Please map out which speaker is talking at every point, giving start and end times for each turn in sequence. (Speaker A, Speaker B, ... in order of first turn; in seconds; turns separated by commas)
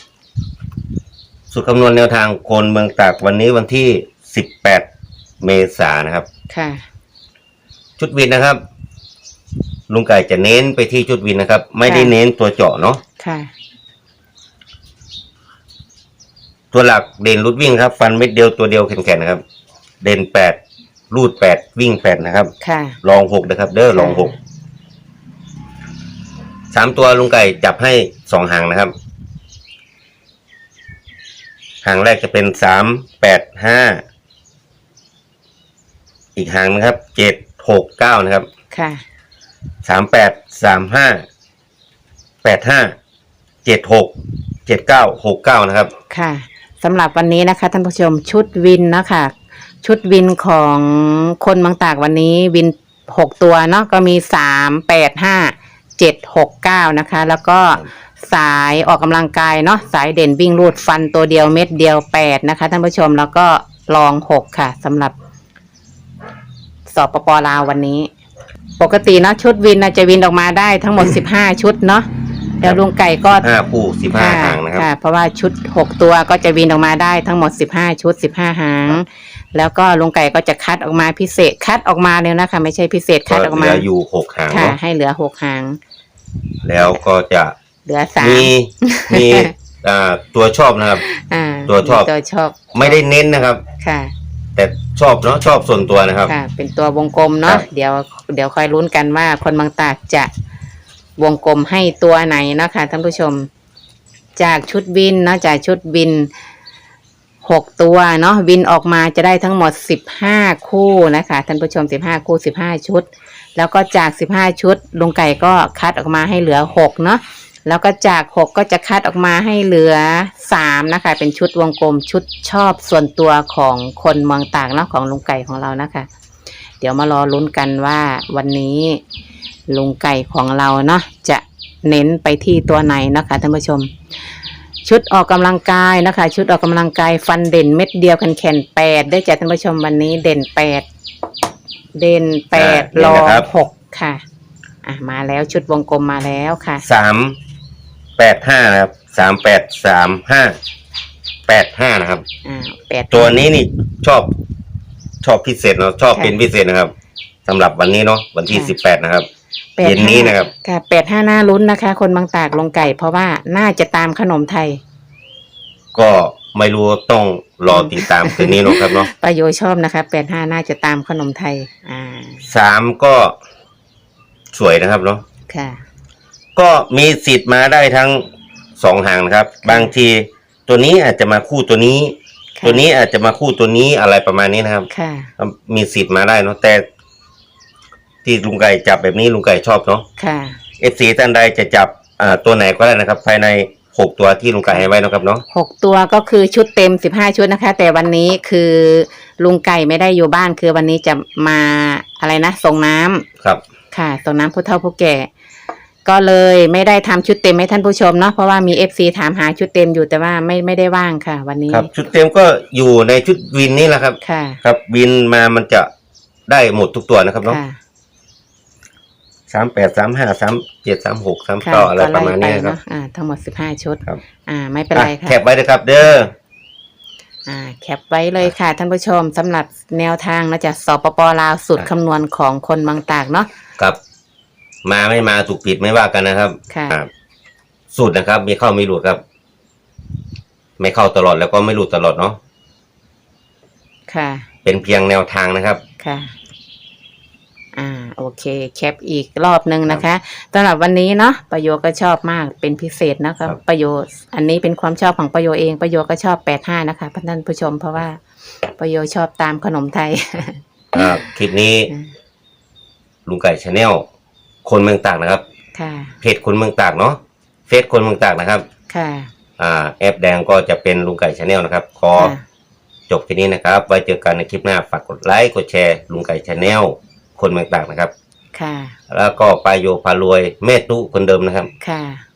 Speaker A: 1.5-4.9, Speaker A: 5.4-6.3, Speaker B: 6.5-6.8, Speaker A: 8.0-8.6, Speaker A: 9.9-13.0, Speaker B: 11.8-12.1, Speaker B: 13.2-13.5, Speaker A: 16.7-19.4, Speaker A: 20.0-20.6, Speaker A: 21.1-22.5, Speaker B: 22.6-23.0, Speaker A: 23.0-24.3, Speaker B: 23.9-24.3, Speaker A: 26.7-28.9, Speaker A: 31.8-34.0, Speaker A: 36.4-38.5, Speaker B: 38.7-39.0, Speaker A: 39.9-41.2, Speaker A: 42.4-42.9, Speaker A: 43.6-44.1, Speaker A: 44.7-45.9, Speaker B: 46.1-65.2, Speaker B: 66.9-68.1, Speaker B: 68.8-72.1, Speaker B: 72.6-73.4, Speaker A: 73.3-74.9, Speaker B: 74.1-83.9, Speaker A: 83.3-84.8, Speaker B: 84.5-85.8, Speaker A: 86.6-87.5, Speaker B: 87.9-89.5, Speaker A: 88.2-91.0, Speaker B: 91.0-93.0, Speaker A: 91.7-92.1, Speaker A: 92.7-93.6, Speaker B: 93.8-94.1, Speaker A: 94.6-96.3, Speaker B: 96.3-100.3, Speaker B: 101.2-103.5, Speaker B: 104.4-106.3, Speaker B: 107.4-126.1, Speaker B: 126.8-129.0, Speaker B: 129.7-133.9, Speaker B: 134.8-140.9, Speaker B: 141.9-144.2, Speaker A: 142.6-143.5, Speaker B: 144.8-146.8, Speaker A: 146.8-147.4, Speaker A: 148.2-150.6, Speaker A: 151.5-152.2, Speaker B: 152.4-153.4, Speaker A: 153.1-154.3, Speaker A: 155.2-156.9, Speaker A: 157.5-159.3, Speaker B: 159.8-164.8, Speaker A: 159.8-160.5, Speaker A: 165.9-169.1, Speaker B: 167.7-172.4, Speaker A: 172.4-173.4, Speaker A: 174.5-175.2, Speaker B: 175.5-175.8, Speaker A: 176.6-178.3, Speaker A: 178.8-186.8, Speaker B: 182.6-182.8, Speaker B: 184.9-185.3, Speaker A: 188.2-190.1, Speaker B: 190.2-190.6, Speaker A: 190.8-195.4, Speaker B: 195.5-203.2, Speaker B: 203.9-205.3, Speaker B: 206.1-211.9, Speaker A: 211.7-215.9, Speaker B: 214.2-214.6, Speaker A: 216.5-217.6, Speaker B: 217.4-217.8, Speaker A: 219.5-222.8, Speaker B: 221.6-225.4, Speaker A: 224.9-226.3, Speaker B: 227.5-233.5, Speaker A: 234.8-237.1, Speaker B: 236.7-237.0, Speaker A: 237.9-239.2, Speaker A: 240.8-242.4, Speaker B: 244.1-244.5, Speaker A: 244.7-245.8, Speaker B: 246.0-246.3, Speaker B: 247.7-258.2, Speaker B: 258.8-261.2, Speaker A: 260.9-261.9, Speaker A: 263.3-264.1, Speaker A: 264.6-265.4, Speaker B: 265.8-266.1, Speaker A: 266.2-268.6, Speaker B: 268.9-269.3, Speaker A: 269.6-272.3, Speaker B: 272.1-272.4, Speaker A: 273.1-278.1, Speaker B: 278.5-279.0, Speaker A: 279.1-281.7, Speaker B: 281.8-282.2